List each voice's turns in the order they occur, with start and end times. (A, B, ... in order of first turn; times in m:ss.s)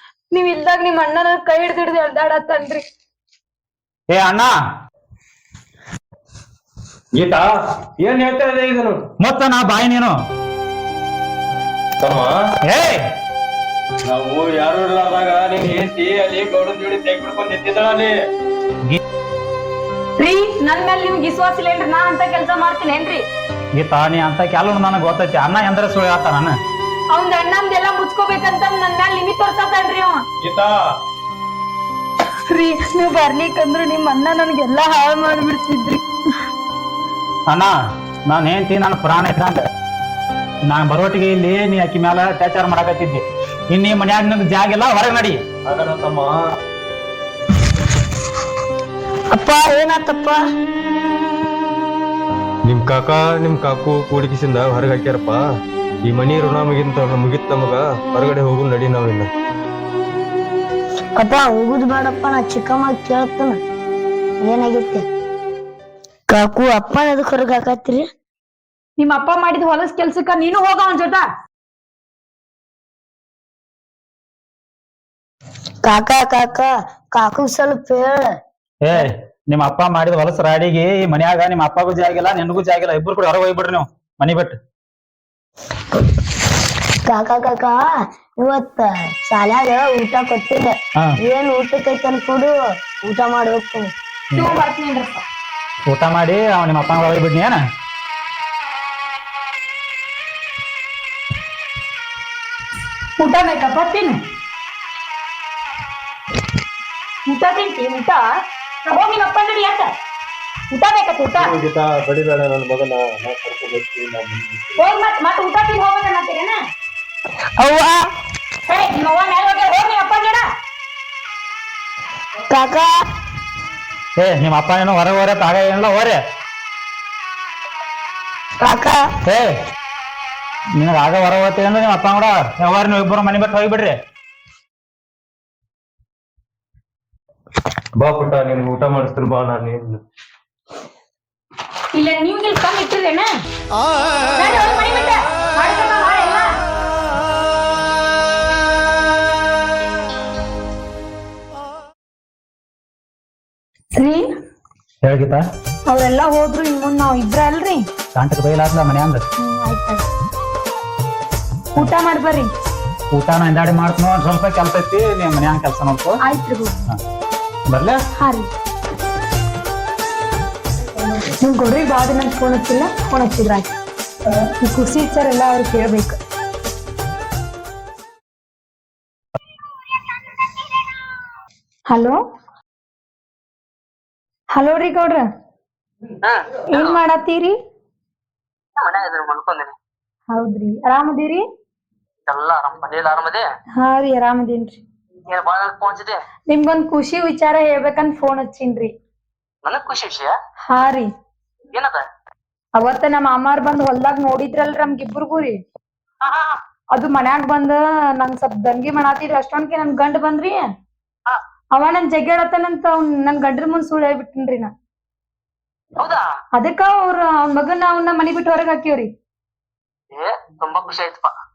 0:00.3-0:02.8 A
0:04.1-0:04.5 B
0:07.2-0:07.5 C
0:08.0-0:09.0 C
0:09.2-0:10.1 B
0:12.0-0:12.3 C
0:12.6-0:13.1 B
0:14.0-0:18.1 C
0:20.2-0:23.2 A
0:23.8-0:26.5 B
0:27.1-0:30.2 A
0:30.4-0:30.8 C
0:32.5-0:36.0 A
0:38.3-0:39.6 B
0:40.6-0:45.4 B
0:45.6-0:46.4 C
0:49.3-0:50.4 D
0:52.7-0:55.4 C
0:56.1-0:59.3 C
1:01.2-1:03.6 D
1:04.4-1:05.0 D
1:06.3-1:08.1 D
1:09.0-1:11.3 A
1:15.8-1:18.4 D
1:18.8-1:24.6 B
1:27.1-1:27.8 D
1:28.4-1:33.9 D
1:34.4-1:34.6 B
1:34.4-1:35.2 A
1:35.9-1:37.6 B
1:43.2-1:44.2 A
1:47.3-1:48.2 A
1:48.8-1:49.9 A
1:50.7-1:51.6 A
1:51.4-1:54.8 C
1:54.8-1:56.6 A
1:57.6-1:58.1 D
1:58.7-2:00.5 A
2:02.5-2:02.9 D
2:04.2-2:06.2 B
2:08.6-2:09.1 D
2:09.2-2:09.6 B
2:10.8-2:14.0 B
2:18.0-2:20.0 C
2:21.9-2:23.3 A
2:24.3-2:26.6 A
2:33.9-2:34.3 A
2:35.0-2:35.5 B
2:35.9-2:37.9 A
2:38.2-2:39.2 B
2:39.4-2:40.0 A
2:41.8-2:42.5 A
2:43.1-2:46.2 B
2:46.2-2:46.9 A
2:47.7-2:48.0 B
2:48.2-2:48.5 A
2:51.0-2:53.7 A
2:54.6-2:56.2 A
3:01.9-3:02.2 A
3:04.5-3:05.2 A
3:06.2-3:07.0 E
3:06.7-3:07.6 A
3:08.8-3:09.8 E
3:10.3-3:11.4 A
3:12.3-3:13.4 E
3:13.8-3:14.8 A
3:15.3-3:16.2 E
3:16.5-3:18.9 A
3:19.6-3:20.4 E
3:20.7-3:21.1 A
3:21.7-3:22.0 E
3:22.8-3:25.6 A
3:26.2-3:26.5 E
3:26.9-3:30.7 A
3:31.8-3:34.7 A
3:36.0-3:36.2 E
3:36.5-3:39.1 A
3:40.1-3:41.3 E